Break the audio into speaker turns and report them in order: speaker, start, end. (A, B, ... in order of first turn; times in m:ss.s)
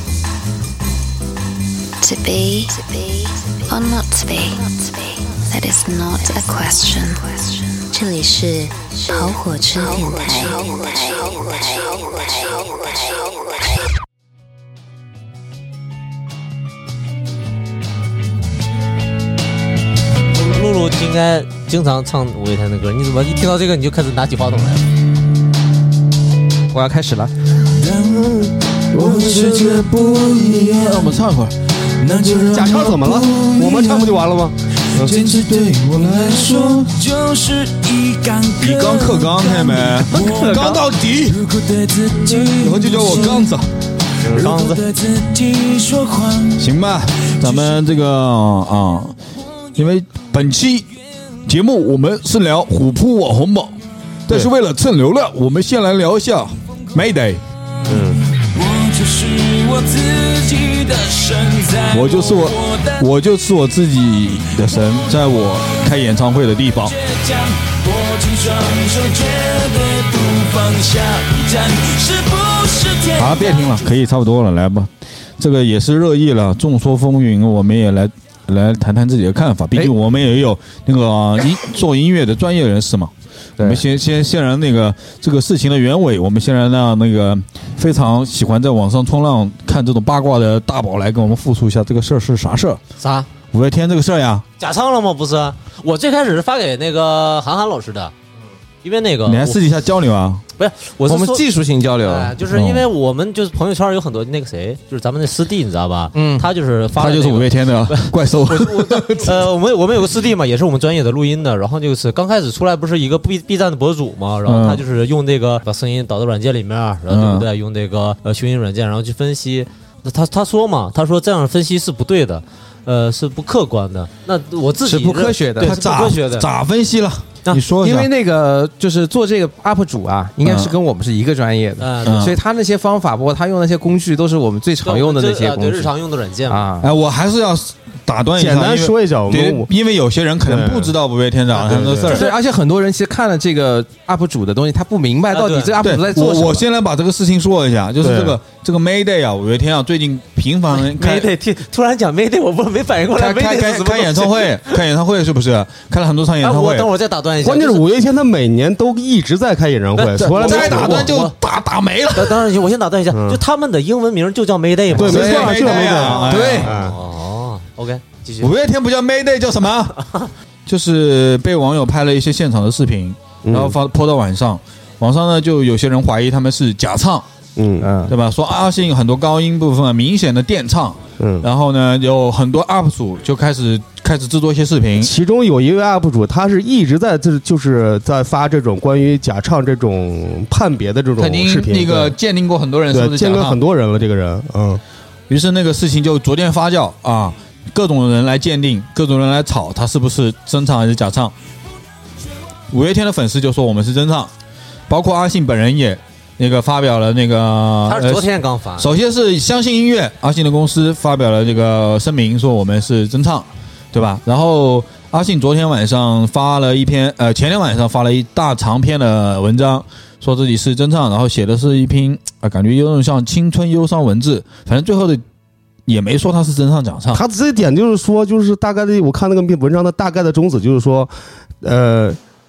0:02.0-0:13.8 A
0:20.3-0:24.9 B
0:26.7-0:27.3 C
0:27.7-0:31.2 D
0:28.9-0:31.5 E
0:32.0-0:33.4 D
0:32.1-0:34.2 E
0:32.5-0:35.2 F
0:34.9-0:37.0 E
0:36.0-0:43.5 D
0:38.6-0:41.4 E
0:42.4-0:43.6 E
0:44.2-0:46.7 D
0:44.3-0:44.8 B
0:46.6-0:49.2 E
0:47.2-0:47.8 D
0:49.8-0:50.9 E
0:51.5-0:57.4 E
0:57.9-0:58.2 F
0:58.0-1:03.1 D
1:01.9-1:07.0 E
1:06.8-1:13.7 D
1:13.2-1:32.8 E
1:23.6-1:23.8 C
1:33.0-1:33.3 B
1:33.5-1:34.4 E
1:34.6-1:38.1 B
1:38.8-1:39.7 B
1:39.2-1:40.4 E
1:40.6-1:41.4 B
1:41.1-1:42.4 C
1:42.0-2:06.5 B
1:42.5-1:42.9 E
1:46.2-1:46.5 C
1:47.0-1:49.4 E
1:54.5-1:54.8 E
1:57.1-1:57.5 E
2:04.8-2:05.7 C
2:05.6-2:08.1 E
2:07.8-2:15.9 C
2:10.4-2:10.8 E
2:11.8-2:12.3 B
2:12.0-2:12.4 E
2:14.8-2:16.7 B
2:16.5-2:16.9 C
2:16.8-2:22.3 E
2:18.4-2:19.7 F
2:20.4-2:20.9 F
2:21.5-2:22.3 F
2:22.1-2:26.6 C
2:25.3-2:25.8 B
2:25.8-2:31.3 E
2:28.0-2:28.4 F
2:30.7-2:34.8 B
2:33.1-2:36.9 E
2:36.4-2:37.9 B
2:37.4-2:41.1 F
2:40.0-2:41.3 B
2:40.2-2:42.4 E
2:42.2-2:48.5 B
2:43.1-2:43.4 F
2:45.0-2:46.7 E
2:45.0-2:47.0 F
2:46.3-2:46.7 C
2:48.4-2:50.0 E
2:50.0-2:50.3 B
2:50.7-2:57.3 E
2:53.4-2:53.8 F
2:57.6-2:57.9 F
2:57.8-2:58.1 C
2:58.1-3:05.1 E
3:01.2-3:01.5 F
3:05.0-3:12.2 F
3:11.2-3:13.6 E
3:12.9-3:14.8 F
3:15.3-3:21.3 E
3:22.7-3:24.3 E
3:24.9-3:45.2 E
3:27.9-3:28.9 B
3:45.9-3:47.2 E
3:47.1-3:51.1 F
3:51.6-3:52.2 F